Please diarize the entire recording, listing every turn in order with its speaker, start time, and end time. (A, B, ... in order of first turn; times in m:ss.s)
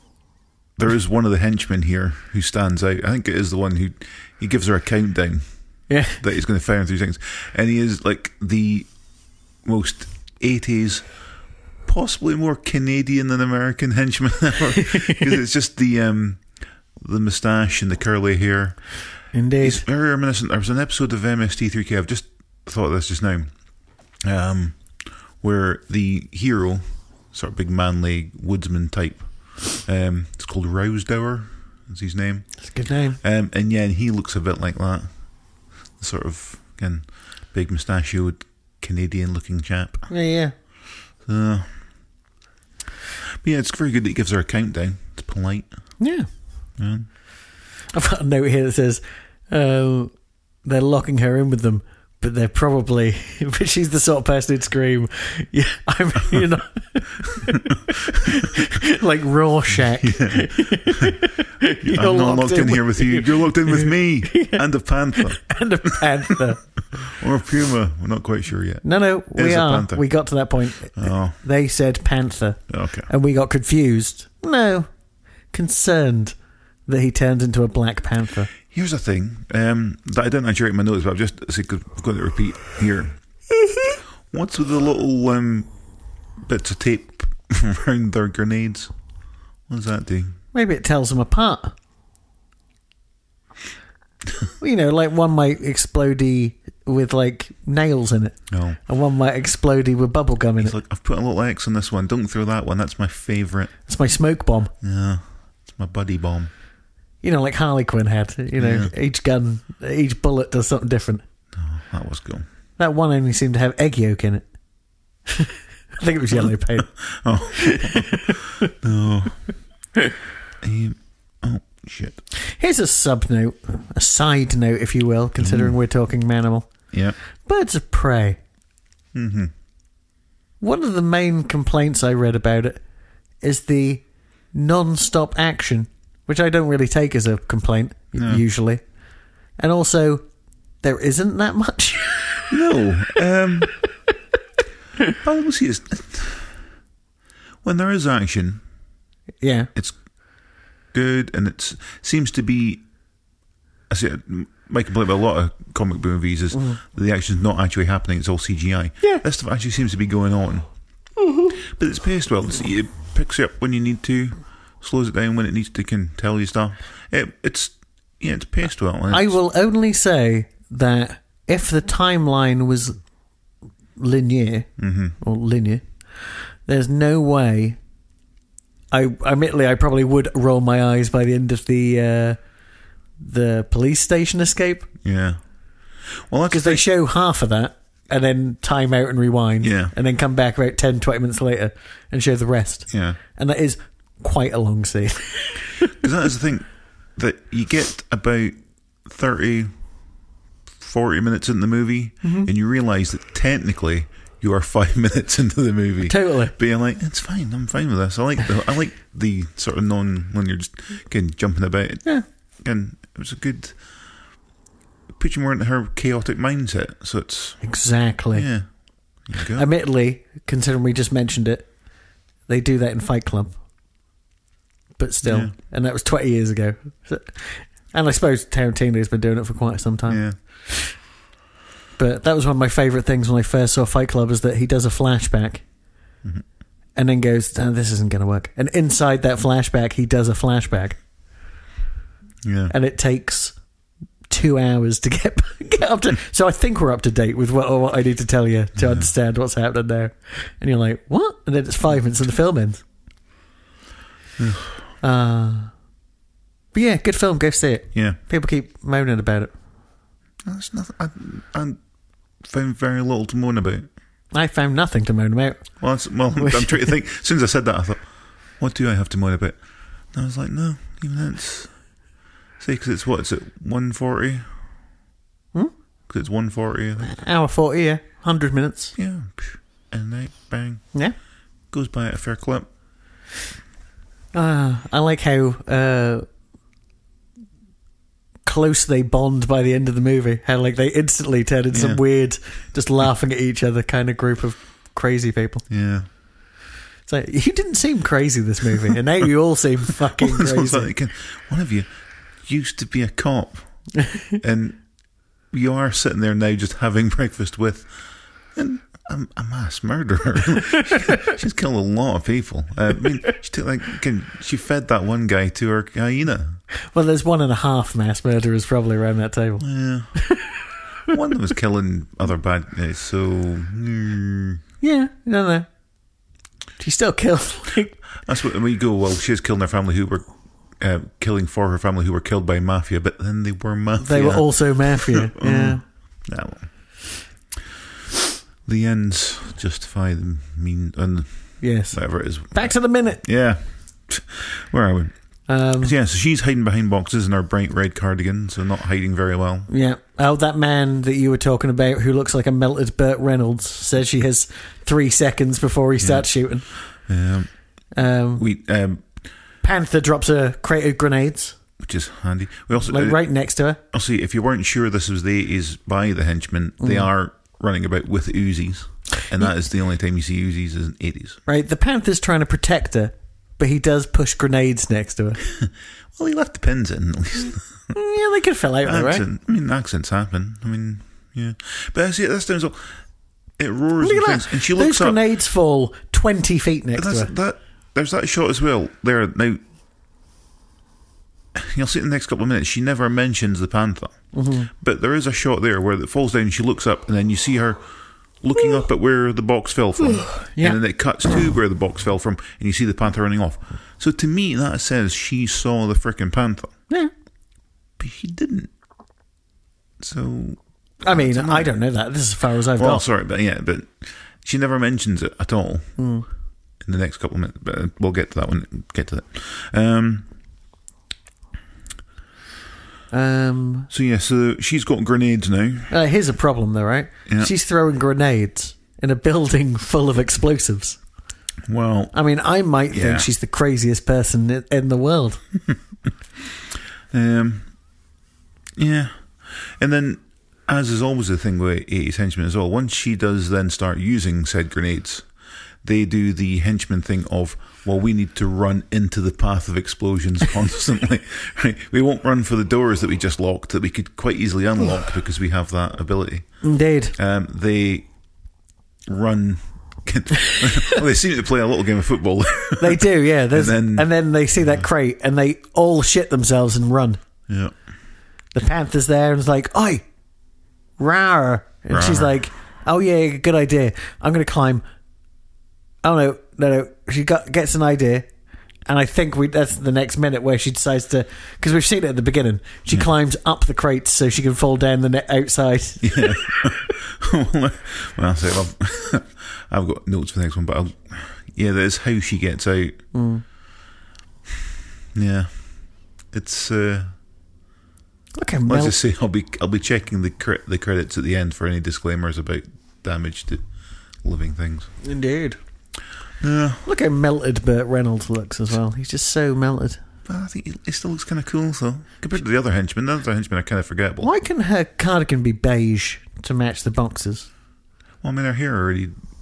0:00.8-0:08.9 A
0:05.9-0:06.2 B
0:09.6-0:11.1 A
0:11.8-0:16.5 A
0:14.8-0:15.1 B
0:17.0-0:19.1 A
0:19.3-0:19.8 B
0:19.6-0:32.6 A
0:32.6-0:33.2 B
0:33.2-0:40.1 A
0:40.1-0:40.5 B
0:41.2-0:41.7 A
0:43.4-0:45.7 A
0:46.0-0:46.3 B
0:46.8-0:47.1 A
0:47.9-0:50.1 B
0:50.6-1:06.7 B
0:59.7-1:01.2 A
1:01.8-1:05.4 A
1:07.1-1:10.0 A
1:08.8-1:14.9 B
1:11.0-1:11.4 A
1:12.7-1:13.1 A
1:15.5-1:18.5 B
1:18.7-1:23.2 A
1:24.3-1:25.7 A
1:26.4-1:28.9 A
1:29.7-1:30.4 A
1:30.5-1:31.7 B
1:34.6-1:40.8 B
1:38.5-1:38.8 A
1:40.6-1:43.7 A
1:43.9-1:44.7 B
1:44.8-1:46.5 A
1:47.2-1:51.2 B
1:48.6-1:48.9 A
1:51.5-1:52.4 A
1:52.8-1:54.5 B
1:55.3-1:56.9 B
1:56.3-1:59.5 A
1:57.6-1:58.5 B
2:00.6-2:02.2 A
2:02.6-2:06.7 B
2:05.4-2:05.8 A
2:07.4-2:08.4 B
2:09.1-2:09.5 A
2:10.6-2:12.8 B
2:13.4-2:18.8 B
2:18.2-2:18.4 A
2:19.6-2:20.2 B
2:20.8-2:22.6 B
2:22.5-2:23.8 A
2:25.2-2:26.6 A
2:27.6-2:28.6 A
2:29.4-2:29.7 B
2:30.9-2:32.8 A
2:33.9-2:40.7 A
2:36.5-2:36.8 B
2:41.2-2:41.6 B
2:41.7-2:49.4 A
2:49.1-2:53.0 B
2:54.0-2:57.8 B
2:54.8-2:55.2 A
2:58.9-3:02.4 B
3:03.2-3:04.9 B
3:05.0-3:05.4 A
3:06.3-3:06.8 A
3:06.5-3:16.0 B
3:09.6-3:09.9 A
3:12.9-3:13.2 A
3:16.0-3:19.7 A
3:20.8-3:32.1 A
3:22.2-3:22.5 B
3:26.1-3:26.5 B
3:32.6-3:33.8 A
3:35.2-3:37.6 A
3:37.6-3:38.5 B
3:38.3-3:38.7 A
3:39.2-3:39.7 A
3:39.5-3:41.7 B
3:42.5-3:43.6 B
3:45.0-3:50.9 B
3:45.2-3:45.5 A
3:50.1-3:50.4 A
3:52.0-3:55.6 B
3:57.0-4:01.0 B
4:02.4-4:02.7 A
4:02.7-4:03.6 B
4:04.3-4:12.8 B
4:08.8-4:09.1 A
4:14.4-4:14.8 A
4:15.0-4:15.7 B
4:16.7-4:19.5 B
4:20.5-4:21.8 A
4:22.4-4:23.9 A
4:24.3-4:25.7 B
4:25.8-4:28.0 A
4:26.3-4:27.0 B
4:28.6-4:29.6 A
4:30.1-4:31.9 A
4:32.6-4:34.5 A
4:36.1-4:37.2 A
4:37.0-4:38.9 B
4:39.0-4:40.9 A
4:41.7-4:42.7 A
4:44.3-4:46.2 B
4:48.5-4:55.6 B
4:51.7-4:52.0 A
4:55.7-4:56.1 A
4:57.1-5:00.9 B
5:00.2-5:01.9 A
5:02.4-5:04.9 A
5:05.5-5:08.0 A
5:08.5-5:16.6 A
5:16.9-5:20.6 B
5:19.6-5:20.2 A
5:21.1-5:24.6 A
5:24.8-5:25.7 B
5:26.8-5:28.0 B
5:28.3-5:37.0 A
5:34.0-5:35.8 B
5:38.7-5:45.1 A
5:41.6-5:43.2 B
5:45.5-5:45.9 B
5:45.8-5:49.7 A
5:49.7-5:56.7 B
5:56.0-5:57.5 A
5:58.0-5:58.4 B
5:58.4-5:59.0 A
5:59.6-6:01.6 B
6:01.8-6:03.2 A
6:02.9-6:03.8 B
6:03.9-6:11.4 A
6:06.8-6:07.1 B
6:11.5-6:15.4 B
6:15.4-6:17.8 A
6:17.9-6:19.3 B
6:18.8-6:22.9 A
6:23.6-6:25.2 A
6:24.0-6:27.3 B
6:27.0-6:29.6 A
6:31.6-6:34.2 A
6:34.3-6:34.7 B
6:34.8-6:37.8 A
6:38.4-6:46.7 A
6:40.0-6:40.8 B
6:48.0-6:48.7 A
6:50.0-6:51.8 A
6:51.0-6:53.0 B
6:52.8-6:56.0 A
6:56.0-6:56.3 B
6:56.8-7:00.3 A
7:03.1-7:03.9 B
7:03.9-7:05.9 A
7:05.9-7:11.0 B
7:11.7-7:12.2 A
7:12.1-7:15.4 B
7:12.9-7:13.3 A
7:17.1-7:17.7 A
7:18.8-7:25.3 A
7:25.8-7:36.5 A
7:36.6-7:37.2 B
7:37.2-7:38.1 A
7:39.1-7:44.1 A
7:42.8-7:47.2 B
7:48.5-7:50.0 B
7:51.0-7:54.8 B
7:51.9-7:52.4 A
7:56.0-7:58.3 B
7:58.9-8:06.4 B
8:06.0-8:13.0 A
8:13.1-8:13.4 B
8:15.2-8:15.8 A
8:16.3-8:17.1 A
8:18.4-8:19.0 B
8:18.7-8:23.6 A
8:24.2-8:24.9 A
8:25.0-8:25.6 B
8:26.4-8:26.8 A
8:26.8-8:30.0 B
8:30.3-8:34.3 A
8:34.2-8:37.5 B
8:38.2-8:39.1 A